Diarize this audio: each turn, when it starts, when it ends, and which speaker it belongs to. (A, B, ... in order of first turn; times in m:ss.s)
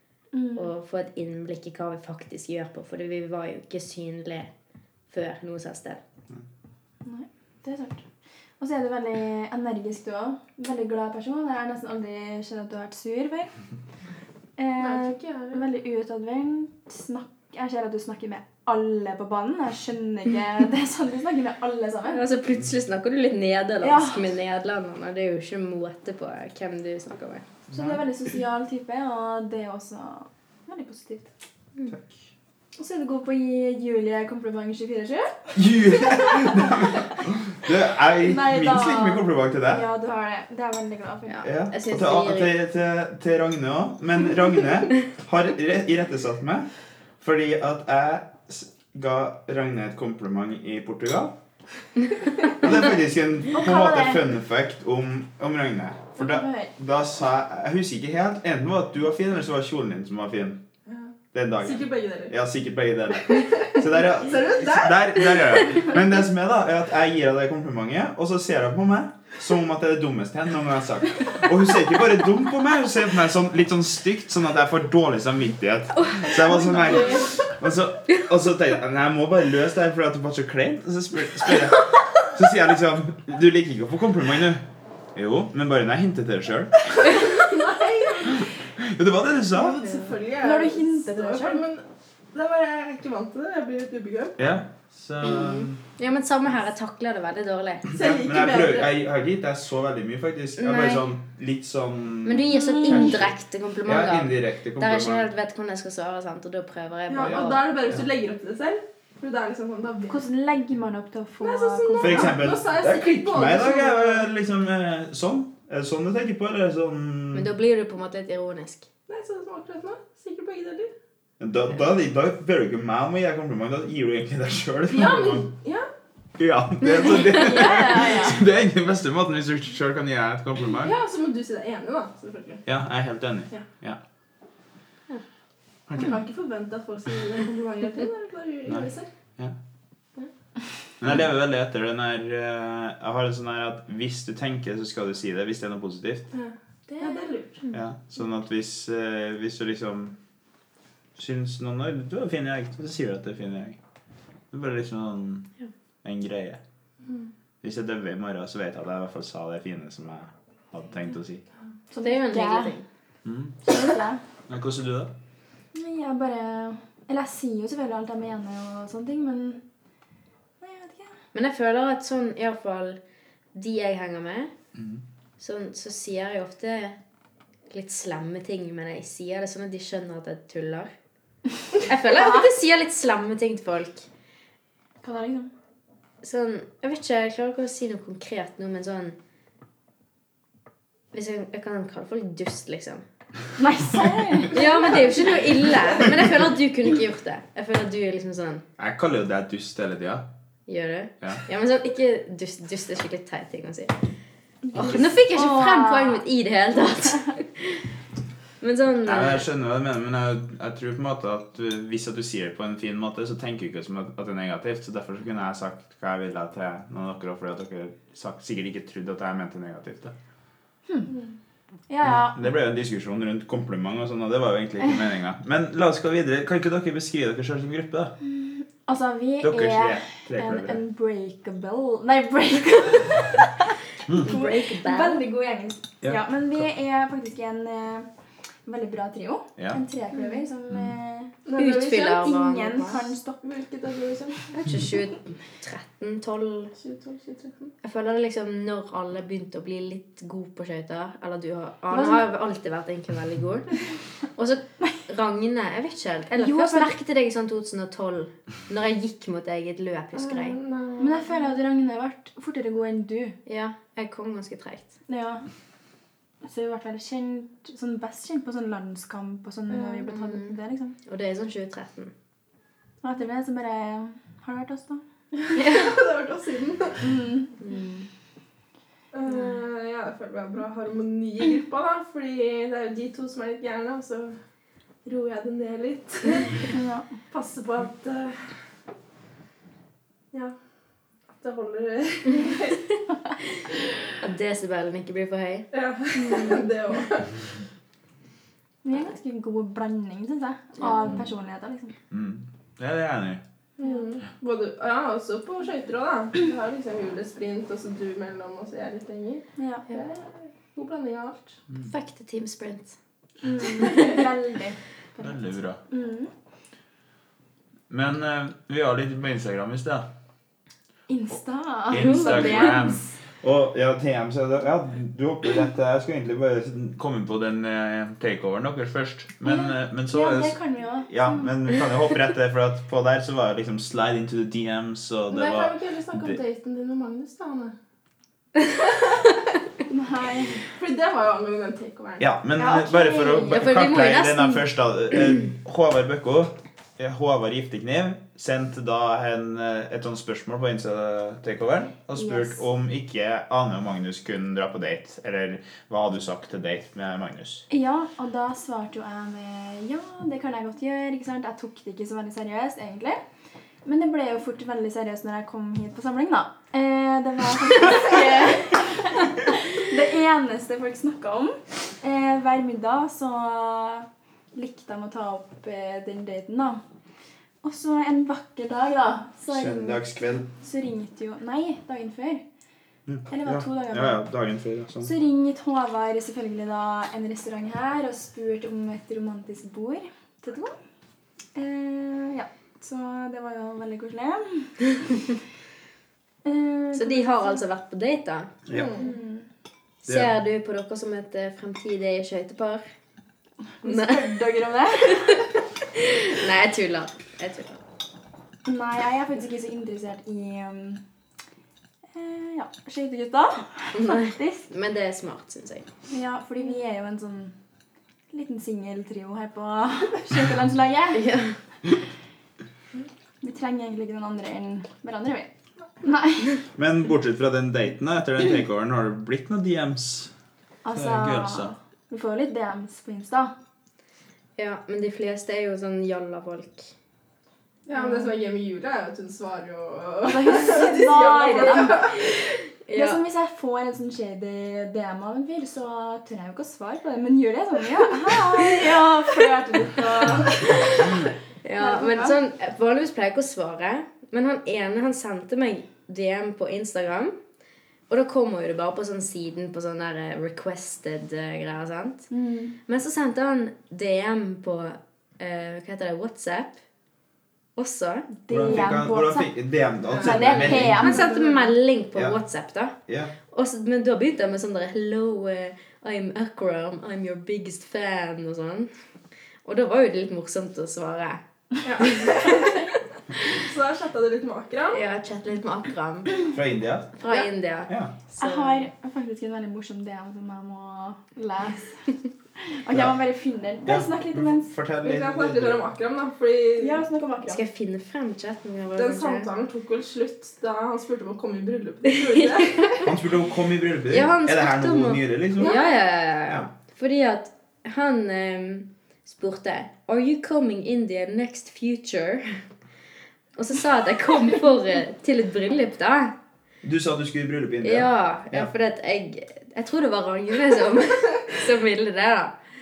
0:00.3-0:00.7 A
0:00.6-0:04.5 B
0:05.1-0:06.0 B
0:07.0-0:08.0 A
0:08.6-0:13.5 A
0:14.6-0:22.2 A
0:14.8-0:15.7 C
0:22.1-0:27.4 B
0:23.8-0:24.3 A
0:27.7-0:28.0 D
0:27.7-0:31.3 A
0:32.8-0:37.0 A
0:35.6-0:39.9 D
0:38.2-0:41.4 A
0:41.3-0:42.5 B
0:41.4-0:46.7 D
0:47.2-0:51.4 D
0:52.5-1:00.6 D
0:53.5-0:54.2 A
0:56.2-0:56.7 A
1:00.9-1:02.3 C
1:01.3-1:24.6 D
1:03.4-1:05.6 C
1:15.9-1:17.0 B
1:16.6-1:17.5 C
1:25.2-1:27.1 D
1:27.0-1:28.5 C
1:28.8-1:29.8 D
1:29.5-1:34.4 C
1:30.4-1:31.6 A
1:34.4-1:35.8 D
1:35.2-1:37.9 B
1:37.9-1:43.3 D
1:37.9-1:38.9 C
1:40.6-1:41.1 B
1:42.2-1:47.6 B
1:43.8-1:45.3 D
1:47.1-1:50.2 C
1:50.1-1:52.4 A
1:51.4-1:54.3 C
1:52.0-1:57.5 D
1:57.3-1:58.9 B
1:59.1-2:00.9 C
2:01.4-2:05.5 D
2:04.9-2:05.9 C
2:06.4-2:10.9 D
2:07.1-2:08.4 A
2:10.8-2:12.6 C
2:12.7-2:14.0 D
2:15.9-2:16.2 D
2:16.0-2:19.1 C
2:18.7-2:19.6 D
2:21.0-2:26.3 D
2:26.3-2:27.6 C
2:26.9-2:27.3 A
2:27.7-2:30.2 D
2:31.2-2:33.8 D
2:34.5-2:35.5 D
2:36.0-2:36.6 D
2:37.6-2:41.4 D
2:41.9-2:42.7 A
2:42.0-2:42.9 B
2:43.2-2:43.6 D
2:43.7-2:44.2 A
2:44.5-2:45.1 D
2:45.7-2:49.6 A
2:50.6-2:51.2 A
2:51.3-2:53.0 B
2:53.5-2:54.5 B
2:54.8-2:55.0 D
2:55.4-2:57.0 B
2:57.7-3:00.9 B
3:01.9-3:04.1 B
3:02.1-3:02.5 A
3:05.0-3:05.5 A
3:06.2-3:09.2 B
3:11.1-3:13.0 B
3:13.6-3:15.4 A
3:14.5-3:18.6 B
3:18.8-3:20.3 D
3:20.7-3:24.0 B
3:24.6-3:26.2 A
3:24.8-3:27.9 B
3:28.6-3:29.5 B
3:29.0-3:40.1 D
3:41.9-3:42.4 A
3:42.0-3:48.1 D
3:48.2-3:58.1 A
3:49.4-3:50.8 D
3:54.1-3:55.2 B
3:58.6-4:01.3 A
4:01.5-4:02.2 C
4:01.6-4:03.1 B
4:01.9-4:03.4 A
4:03.4-4:04.5 C
4:04.5-4:06.7 B
4:06.8-4:07.7 C
4:07.8-4:20.6 B
4:11.9-4:12.2 A
4:16.3-4:17.0 A
4:20.2-4:21.3 C
4:21.0-4:23.4 A
4:23.5-4:24.9 B
4:25.1-4:25.5 A
4:26.4-4:31.0 A
4:29.7-4:30.1 C
4:30.1-4:30.5 B
4:31.1-4:32.1 B
4:33.0-4:35.0 A
4:35.4-4:37.2 C
4:35.6-4:35.8 B
4:37.0-4:37.5 A
4:37.6-4:38.1 B
4:39.1-4:44.4 C
4:45.0-4:46.7 C
4:46.7-4:47.1 A
4:47.3-4:48.6 C
4:51.4-4:52.8 C
4:54.2-4:55.7 B
4:55.7-4:57.4 C
4:56.2-4:56.6 A
4:58.8-5:02.0 A
5:02.1-5:03.4 D
5:03.8-5:11.6 C
5:09.6-5:09.9 A
5:11.8-5:13.0 B
5:13.4-5:16.3 A
5:15.2-5:15.8 D
5:17.9-5:20.1 D
5:21.1-5:23.1 A
5:21.9-5:36.4 D
5:21.9-5:22.9 B
5:29.4-5:31.5 A
5:35.3-5:37.8 C
5:39.9-5:40.7 A
5:40.8-5:42.2 C
5:42.2-5:57.7 D
5:42.6-5:43.6 A
5:43.5-5:44.6 B
5:52.2-5:52.6 A
5:57.7-6:03.2 A
6:03.8-6:16.8 A
6:17.6-6:20.0 A
6:19.5-6:20.5 D
6:20.6-6:22.4 A
6:23.1-6:25.1 D
6:23.3-6:24.2 A
6:25.0-6:30.8 A
6:31.6-6:35.0 A
6:36.4-6:37.6 A
6:37.0-6:38.5 B
6:38.7-6:38.9 D
6:38.7-6:39.1 C
6:39.0-6:39.5 A
6:40.0-6:42.8 B
6:40.0-6:40.3 D
6:43.8-6:45.5 A
6:43.8-6:44.4 B
6:45.0-6:47.8 B
6:48.6-6:51.0 A
6:52.1-6:54.7 A
6:53.9-6:55.9 B
6:56.1-6:57.5 A
6:58.3-7:01.4 A
7:01.1-7:01.6 B
7:03.4-7:05.5 A
7:06.0-7:06.6 A
7:06.8-7:10.3 D
7:10.8-7:13.5 A
7:10.9-7:11.7 D
7:14.6-7:16.9 B
7:17.9-7:22.3 C
7:20.2-7:22.3 A
7:22.9-7:23.2 B
7:22.9-7:31.2 A
7:31.6-7:37.4 B
7:31.8-7:32.4 A
7:38.1-7:42.3 B
7:42.3-7:42.8 A
7:42.9-7:46.8 B
7:47.8-7:48.3 B
7:48.4-7:49.5 A
7:48.5-7:51.0 D
7:50.1-7:51.7 C
7:50.2-7:51.3 A
7:50.8-7:53.0 B
7:53.1-7:53.3 D
7:53.5-7:58.9 B
7:59.6-8:01.4 B
8:01.8-8:02.9 C
8:02.0-8:02.7 B
8:03.5-8:05.0 C
8:04.9-8:06.4 B
8:06.5-8:07.1 D
8:07.2-8:08.9 B
8:07.9-8:08.1 D
8:08.4-8:12.0 A
8:12.7-8:14.7 A
8:12.9-8:13.2 D
8:13.9-8:15.8 D
8:15.0-8:17.0 C
8:16.8-8:17.6 A
8:17.4-8:19.5 B
8:19.0-8:23.1 C
8:22.3-8:23.0 B
8:23.0-8:25.8 D
8:24.1-8:32.6 B
8:25.6-8:25.8 C
8:33.6-8:36.4 B
8:36.8-8:38.7 D
8:37.8-8:42.6 B